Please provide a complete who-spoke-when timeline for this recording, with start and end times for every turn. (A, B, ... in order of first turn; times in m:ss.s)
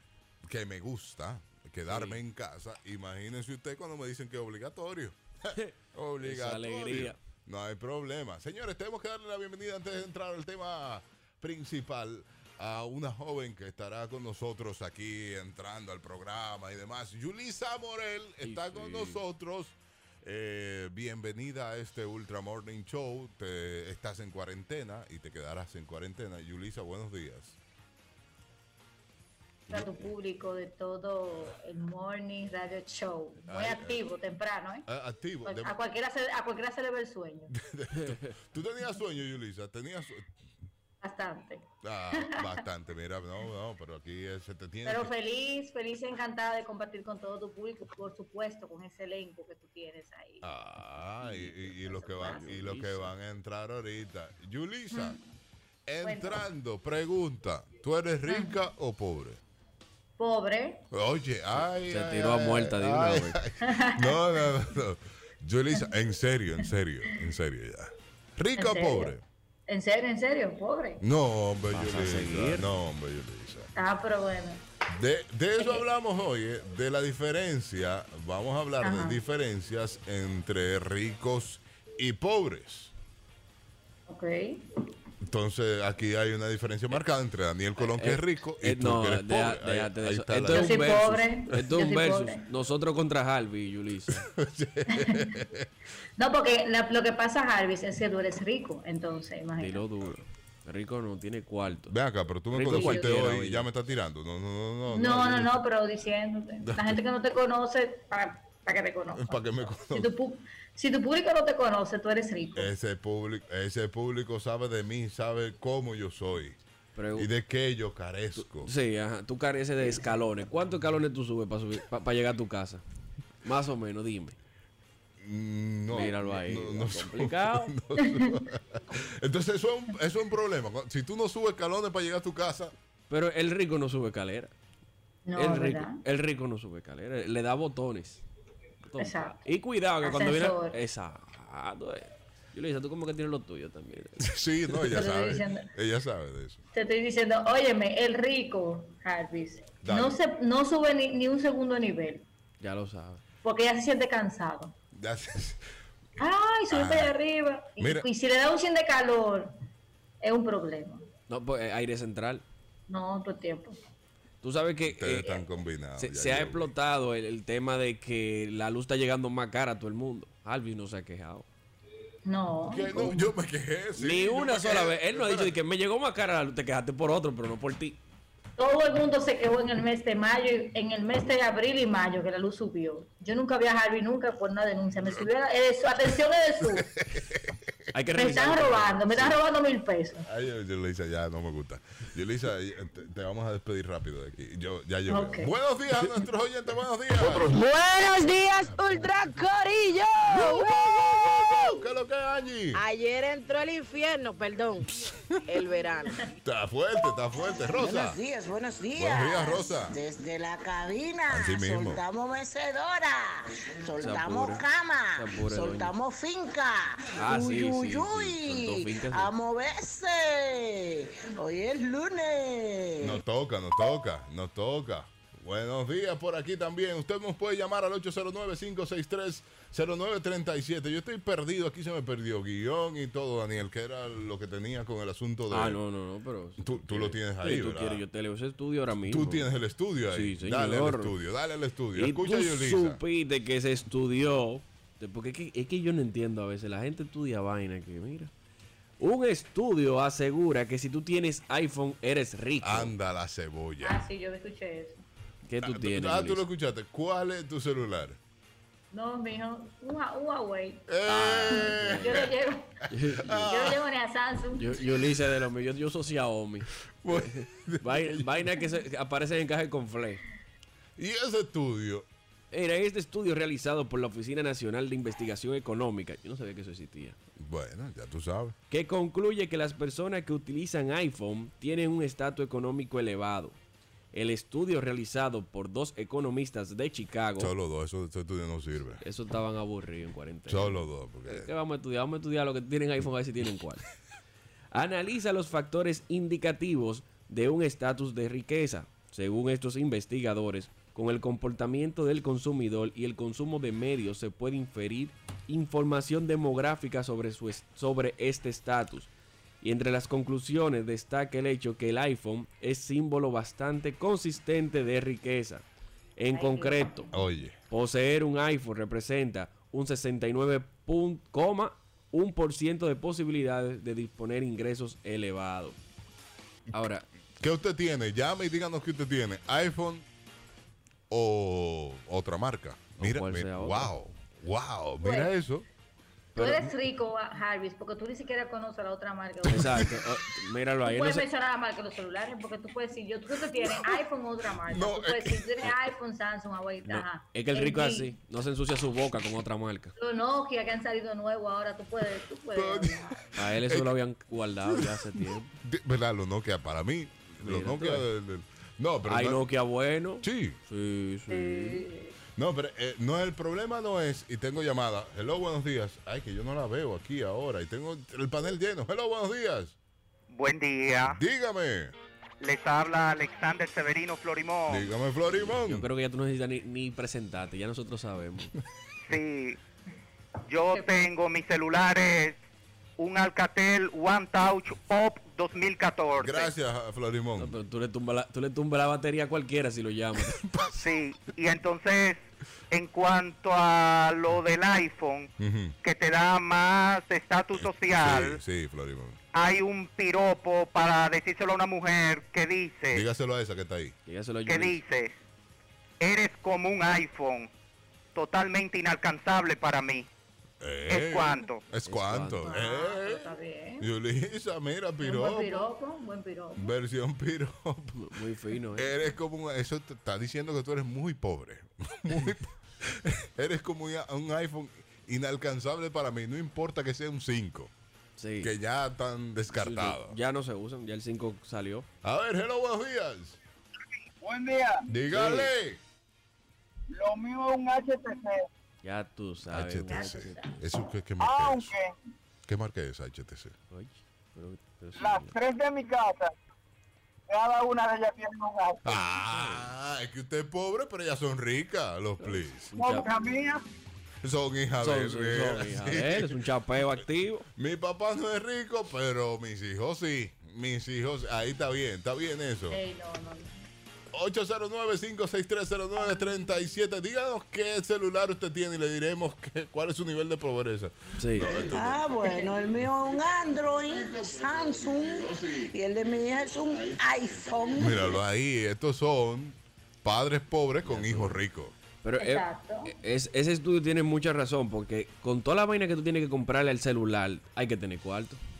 0:00.4-0:27.6 A
0:01.9-0:02.2 B
0:05.5-0:07.2 B
0:18.4-0:19.2 B
0:29.7-0:34.8 C
0:29.7-0:30.1 A
0:33.5-0:34.0 A
0:34.9-0:35.8 A
0:35.4-0:37.5 C
0:37.5-0:40.3 A
0:41.0-0:42.6 C
0:41.8-0:45.1 A
0:44.8-0:50.4 C
0:50.4-0:55.2 A
0:51.2-0:53.1 B
0:51.9-0:52.6 C
0:54.9-0:55.2 C
0:55.9-0:59.4 A
0:56.0-0:56.5 C
0:58.3-0:58.6 C
1:00.2-1:00.8 C
1:00.9-1:09.2 A
1:01.8-1:03.4 B
1:03.6-1:04.3 C
1:08.6-1:09.1 C
1:09.7-1:11.0 C
1:11.0-1:13.7 A
1:11.7-1:12.8 B
1:13.8-1:14.6 C
1:14.9-1:22.9 A
1:18.8-1:19.2 C
1:24.1-1:24.6 C
1:25.2-1:31.2 A
1:27.8-1:34.2 B
1:30.5-1:32.4 C
1:34.3-1:35.7 A
1:34.9-1:35.3 C
1:36.2-1:39.8 C
1:39.6-1:41.9 B
1:41.9-1:45.6 A
1:42.5-1:43.7 B
1:42.7-1:43.2 C
1:44.9-1:52.7 C
1:46.6-1:47.0 A
1:49.1-1:50.1 A
1:52.6-1:56.6 A
1:56.9-1:57.3 B
1:57.2-1:58.7 A
1:58.4-2:02.8 B
2:03.4-2:04.4 B
2:05.2-2:12.7 A
2:05.9-2:07.7 B
2:13.1-2:14.5 B
2:15.3-2:16.0 C
2:15.4-2:18.2 B
2:18.8-2:24.3 B
2:19.0-2:19.4 C
2:20.0-2:20.8 C
2:24.2-2:26.6 A
2:24.9-2:25.7 C
2:26.7-2:32.2 C
2:29.8-2:30.2 A
2:32.6-2:33.2 B
2:33.4-2:34.7 C
2:34.9-2:35.6 A
2:36.2-2:39.5 C
2:36.7-2:37.1 A
2:37.8-2:38.1 A
2:40.2-2:41.1 C
2:41.3-2:42.4 B
2:42.9-2:43.8 C
2:44.4-2:45.3 B
2:44.9-2:46.7 A
2:46.0-2:51.4 B
2:52.2-2:53.3 C
2:52.7-2:55.5 A
2:54.0-2:58.0 B
2:58.6-3:06.9 C
3:07.0-3:07.6 A
3:07.9-3:09.4 B
3:08.2-3:10.2 C
3:10.3-3:17.5 A
3:15.1-3:15.5 C
3:17.3-3:20.9 D
3:20.3-3:22.8 A
3:22.7-3:24.9 D
3:25.5-3:26.2 D
3:26.4-3:28.2 A
3:27.7-3:43.2 E
3:29.0-3:29.9 A
3:31.3-3:32.0 A
3:34.0-3:34.6 B
3:35.2-3:35.9 B
3:37.2-3:39.3 B
3:43.0-3:55.8 A
3:55.5-3:59.5 B
3:56.6-3:58.0 A
3:59.1-4:03.0 A
4:00.1-4:01.1 B
4:01.9-4:08.3 B
4:09.0-4:12.9 B
4:12.6-4:14.0 A
4:13.8-4:15.0 C
4:15.4-4:16.4 B
4:15.6-4:18.2 A
4:18.9-4:20.8 C
4:20.9-4:22.3 A
4:21.1-4:22.3 B
4:21.5-4:22.7 C
4:22.9-4:23.4 B
4:23.2-4:23.8 A
4:23.4-4:24.8 C
4:24.6-4:30.2 B
4:27.0-4:28.4 A
4:31.0-4:32.1 A
4:32.5-4:37.2 B
4:37.4-4:38.6 A
4:38.7-4:43.6 B
4:44.1-4:47.5 B
4:47.4-4:49.0 A
4:49.0-4:53.8 B
4:50.5-4:51.5 A
4:54.7-5:09.1 B
5:09.6-5:15.6 B
5:16.2-5:17.1 B
5:16.3-5:17.1 C
5:17.1-5:17.6 A
5:17.7-5:25.8 B
5:26.7-5:27.0 B
5:27.4-5:30.1 A
5:31.1-5:35.6 A
5:33.0-5:33.9 B
5:35.0-5:35.3 C
5:36.3-5:36.7 B
5:36.4-5:40.0 C
5:39.5-5:41.3 B
5:40.8-5:48.1 C
5:44.7-5:45.7 A
5:46.8-5:49.9 B
5:50.0-5:53.2 C
5:52.5-5:53.9 A
5:53.4-5:55.5 B
5:55.6-5:59.4 A
5:57.4-5:58.1 B
5:59.1-6:01.8 B
6:00.2-6:00.6 A
6:01.3-6:02.2 C
6:02.4-6:09.7 A
6:10.3-6:11.2 F
6:11.1-6:11.9 A
6:12.4-6:14.9 F
6:14.7-6:15.8 A
6:15.3-6:18.5 B
6:19.1-6:19.6 F
6:20.5-6:22.4 F
6:20.7-6:21.1 C
6:23.0-6:26.5 F
6:26.2-6:27.6 A
6:27.4-6:30.4 B
6:30.4-6:30.8 A
6:30.8-6:35.3 F
6:35.4-6:35.8 A
6:35.8-6:38.4 F
6:37.6-6:39.2 A
6:39.3-6:43.0 F
6:42.9-6:43.9 A
6:44.1-6:44.8 B
6:44.4-6:45.1 F
6:46.0-6:47.5 F
6:48.2-6:50.1 F
6:50.6-6:53.3 A
6:50.9-6:51.6 F
6:51.8-6:52.6 B
6:52.4-6:53.9 C
6:53.8-6:55.7 A
6:55.0-6:56.7 C
6:56.6-6:58.0 A
6:57.9-6:58.9 B
6:58.8-7:07.7 A
7:08.2-7:08.5 B
7:08.4-7:10.2 A
7:09.5-7:11.9 B
7:12.0-7:13.4 A
7:14.2-7:14.8 G
7:14.9-7:15.8 A
7:15.1-7:15.5 B
7:16.9-7:18.5 G
7:18.8-7:20.4 B
7:19.5-7:21.7 A
7:19.9-7:20.6 C
7:21.2-7:21.9 G
7:22.4-7:23.5 A
7:23.7-7:25.3 B
7:25.0-7:26.3 G
7:27.3-7:29.0 G
7:28.8-7:32.7 A
7:29.3-7:29.7 B
7:32.3-7:33.1 B
7:32.7-7:33.6 G
7:34.2-7:36.4 A
7:34.8-7:37.4 B
7:37.6-7:42.8 A
7:42.7-7:43.6 C
7:44.1-7:52.0 A
7:51.2-7:51.5 B
7:51.6-7:58.2 E
7:57.8-8:01.7 A
8:00.8-8:01.4 B
8:02.0-8:08.4 B
8:02.2-8:02.9 C